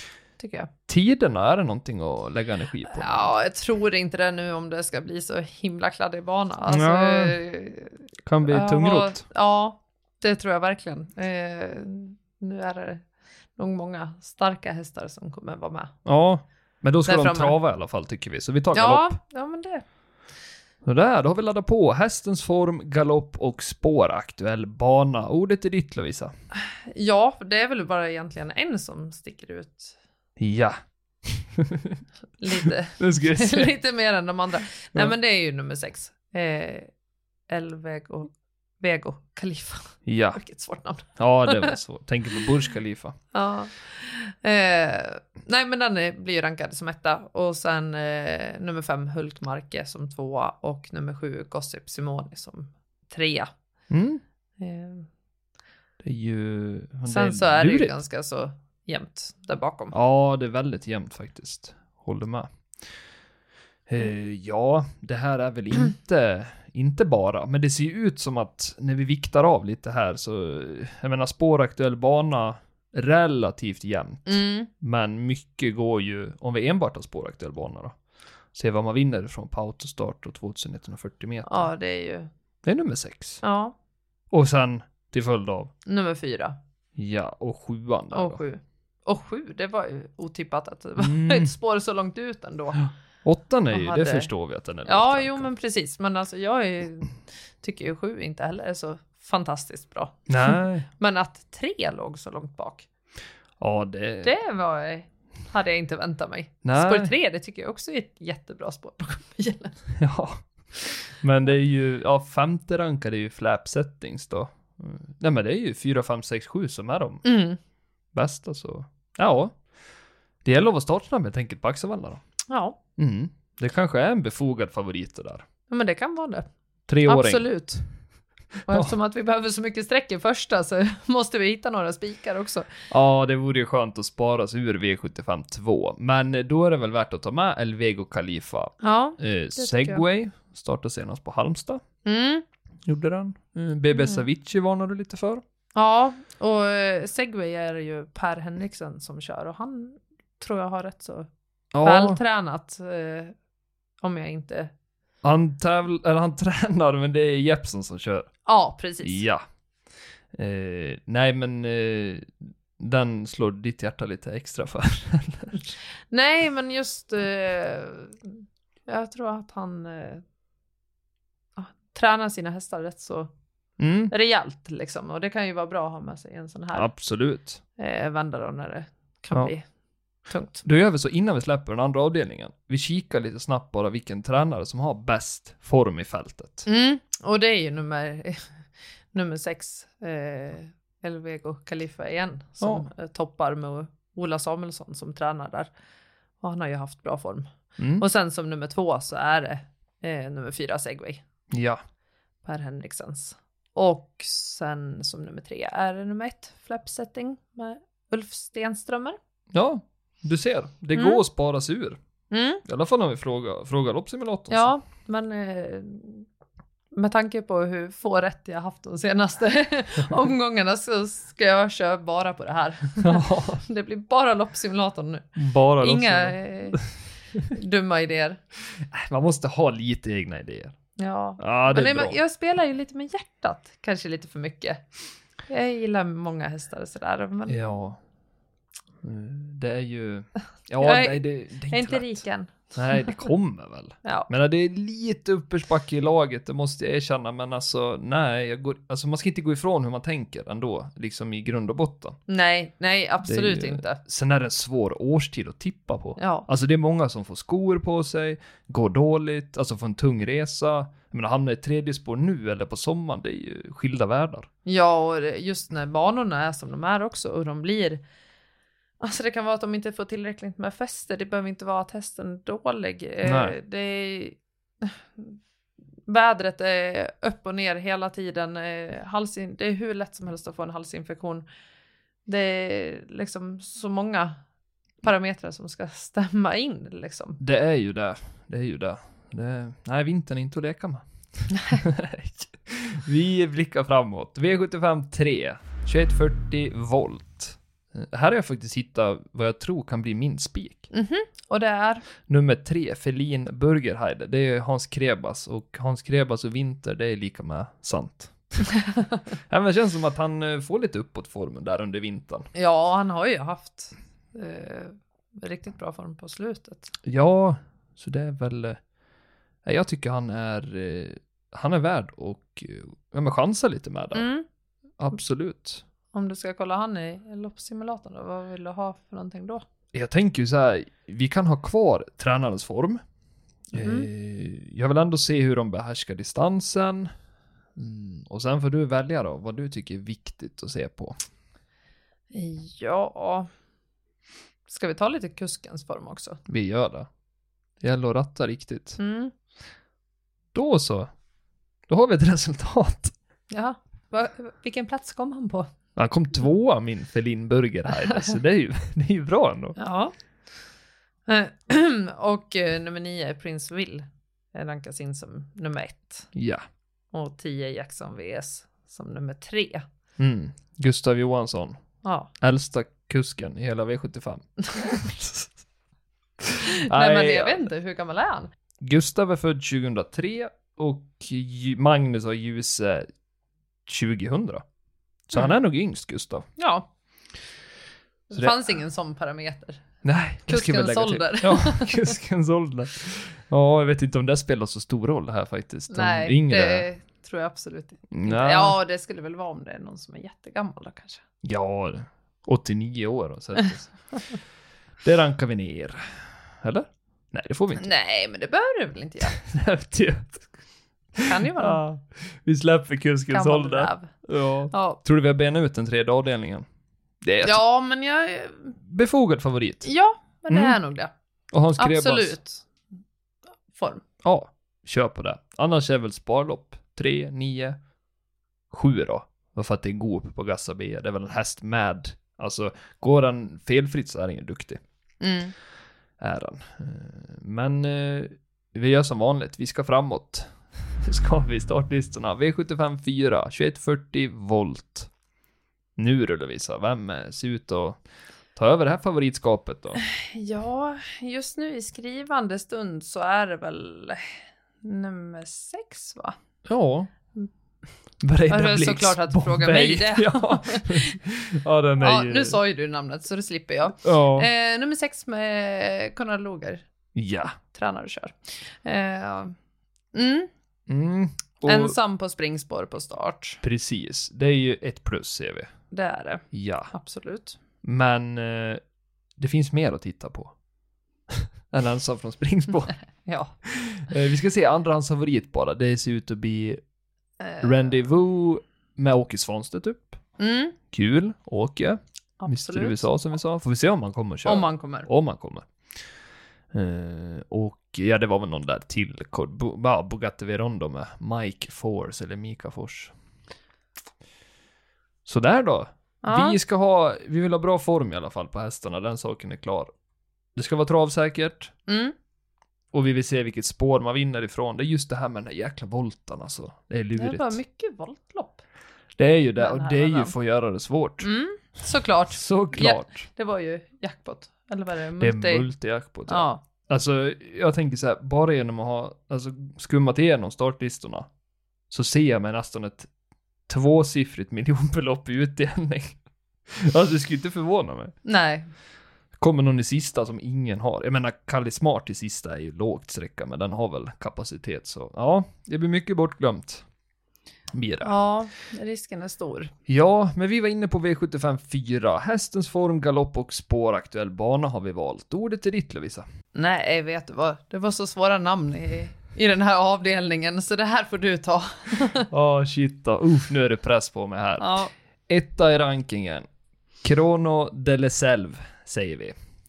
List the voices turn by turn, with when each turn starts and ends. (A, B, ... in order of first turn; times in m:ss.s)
0:00.4-0:00.7 A
0:00.9-0:03.3 B
0:02.8-0:15.9 A
0:06.7-0:07.4 B
0:08.2-0:09.2 B
0:16.0-0:19.2 B
0:17.0-0:17.6 A
0:18.7-0:19.8 A
0:20.8-0:26.3 B
0:26.5-0:30.0 A
0:30.4-0:32.0 B
0:32.4-0:36.9 A
0:32.6-0:33.7 B
0:37.5-0:41.7 A
0:40.0-0:40.4 B
0:41.2-0:43.2 B
0:43.3-0:53.5 A
0:53.9-0:54.2 B
0:54.6-0:55.1 A
0:56.0-0:58.0 B
0:57.1-0:59.9 A
0:59.9-1:02.5 B
1:03.9-1:17.9 B
1:14.2-1:14.7 A
1:18.5-1:21.7 B
1:21.4-1:22.3 A
1:22.6-1:23.4 B
1:23.4-1:23.7 A
1:24.3-1:25.7 B
1:25.8-1:26.6 A
1:27.0-1:28.4 B
1:28.1-1:32.8 A
1:31.0-1:31.5 B
1:32.8-1:35.5 B
1:33.7-1:34.3 A
1:34.8-1:42.9 A
1:40.3-1:40.9 B
1:43.6-1:44.3 B
1:44.2-1:49.8 A
1:46.6-1:47.1 B
1:50.0-1:50.4 B
1:51.1-1:57.2 B
1:57.2-1:57.6 A
1:58.1-1:59.6 B
2:00.4-2:02.2 B
2:02.5-2:02.8 A
2:03.0-2:05.4 B
2:05.7-2:06.5 A
2:06.9-2:07.5 B
2:07.0-2:07.8 A
2:08.6-2:12.7 A
2:12.9-2:21.8 B
2:18.8-2:20.0 A
2:22.0-2:22.4 A
2:22.8-2:25.4 B
2:23.9-2:24.2 A
2:25.7-2:31.3 A
2:31.7-2:32.2 B
2:31.8-2:33.3 A
2:34.0-2:34.7 A
2:35.2-2:38.3 B
2:38.4-2:39.2 A
2:39.0-2:39.4 B
2:40.3-2:45.7 B
2:46.1-2:50.2 A
2:51.6-2:53.3 A
2:53.8-2:54.1 B
2:54.1-2:56.9 A
2:56.7-2:57.6 B
2:57.8-2:59.6 A
3:00.3-3:00.6 A
3:00.6-3:06.6 B
3:06.6-3:08.5 A
3:09.1-3:15.7 A
3:12.6-3:12.8 B
3:16.4-3:21.2 A
3:17.8-3:18.0 B
3:21.5-3:21.8 B
3:22.4-3:29.2 A
3:29.5-3:32.0 B
3:30.9-3:31.2 A
3:32.3-3:32.6 A
3:32.6-3:34.7 B
3:34.5-3:36.3 A
3:36.9-3:46.8 A
3:43.0-3:43.6 B
3:45.4-3:46.8 B
3:47.5-3:48.4 A
3:48.7-3:50.8 B
3:51.0-3:54.8 A
3:51.4-3:52.2 B
3:55.5-3:57.6 A
3:57.5-3:58.0 B
3:59.0-4:02.2 B
4:00.8-4:03.1 A
4:02.7-4:12.2 B
4:04.0-4:04.3 A
4:12.3-4:14.0 A
4:13.2-4:24.5 B
4:16.2-4:16.5 A
4:24.6-4:28.0 A
4:29.0-4:35.4 A
4:33.2-4:33.6 B
4:36.1-4:41.4 A
4:42.2-4:44.4 A
4:45.0-4:47.4 A
4:47.4-5:00.9 B
5:00.9-5:02.0 A
5:02.3-5:08.3 B
5:09.5-5:12.5 B
5:12.5-5:16.9 A
5:17.0-5:18.8 B
5:19.6-5:24.3 B
5:24.1-5:24.4 A
5:25.0-5:25.8 B
5:26.1-5:29.6 A
5:29.9-5:33.0 B
5:33.7-5:37.1 B
5:33.7-5:34.1 A
5:37.8-5:41.2 B
5:42.3-5:43.5 A
5:44.7-5:46.4 A
5:46.5-5:47.1 B
5:47.8-5:49.0 B
5:49.0-5:49.3 A
5:50.5-5:51.1 B
5:51.9-5:53.1 B
5:53.5-5:55.7 A
5:56.0-5:59.8 B
5:59.8-6:00.1 A
6:01.3-6:06.3 A
6:06.3-6:06.6 B
6:07.1-6:09.8 A
6:10.2-6:11.8 B
6:12.0-6:12.3 A
6:12.4-6:15.5 B
6:16.4-6:17.7 B
6:16.6-6:18.5 A
6:18.8-6:23.1 B
6:23.9-6:24.6 B
6:25.3-6:26.4 B
6:26.6-6:26.9 A
6:28.3-6:29.8 A
6:28.3-6:28.6 B
6:30.0-6:36.9 B
6:30.5-6:32.1 A
6:35.9-6:41.2 A
6:38.1-6:38.8 B
6:41.4-6:43.9 B
6:45.0-6:47.9 B
6:47.8-6:49.4 A
6:49.3-6:50.5 B
6:51.2-6:56.6 B
6:51.2-6:51.8 A
6:53.3-6:54.1 A
6:54.7-6:55.0 A
6:57.2-6:57.6 B
6:57.4-6:58.7 A
6:58.8-6:59.9 B
6:59.8-7:01.1 A
7:00.5-7:00.8 B
7:01.5-7:02.4 B
7:01.8-7:02.6 A
7:03.7-7:04.0 A
7:04.2-7:07.8 B
7:08.7-7:14.8 B
7:15.2-7:15.5 A
7:16.2-7:25.1 B
7:26.0-7:28.0 B
7:28.5-7:30.0 B
7:30.0-7:34.2 A
7:34.8-7:36.4 A
7:36.6-7:37.1 B
7:38.2-7:42.6 B
7:38.5-7:41.2 A
7:42.0-7:46.8 A
7:44.0-7:44.5 B
7:47.1-7:47.5 B
7:47.7-7:49.5 A
7:50.1-7:50.5 A
7:50.9-7:52.0 B
7:51.6-7:53.6 A
7:53.6-7:55.7 B
7:55.9-7:57.6 A
7:56.5-7:56.9 B
7:57.8-7:58.8 B
7:59.4-8:00.5 B
8:01.3-8:02.9 B
8:03.2-8:03.5 A
8:03.6-8:06.8 B
8:07.4-8:07.9 A
8:07.6-8:10.2 B
8:10.4-8:10.8 A
8:10.9-8:15.7 B
8:12.4-8:13.1 A
8:14.4-8:15.1 A
8:16.7-8:23.1 B
8:25.2-8:29.9 B
8:26.2-8:26.6 A
8:30.5-8:31.7 B
8:31.9-8:32.1 A
8:32.9-8:37.6 B
8:37.2-8:38.6 A
8:39.2-8:41.3 B
8:39.6-8:40.3 A
8:41.2-8:45.7 A
8:42.3-8:43.2 B
8:45.2-8:51.3 B
8:46.3-8:46.6 A
8:51.9-8:53.1 B
8:53.7-8:56.2 B
8:56.7-8:58.1 B
8:58.2-8:58.7 A
8:59.4-9:06.8 B
9:07.7-9:08.1 B
9:08.0-9:09.7 A
9:09.9-9:16.2 B
9:16.5-9:22.3 A
9:22.3-9:26.5 B
9:24.6-9:24.9 A
9:27.0-9:29.3 B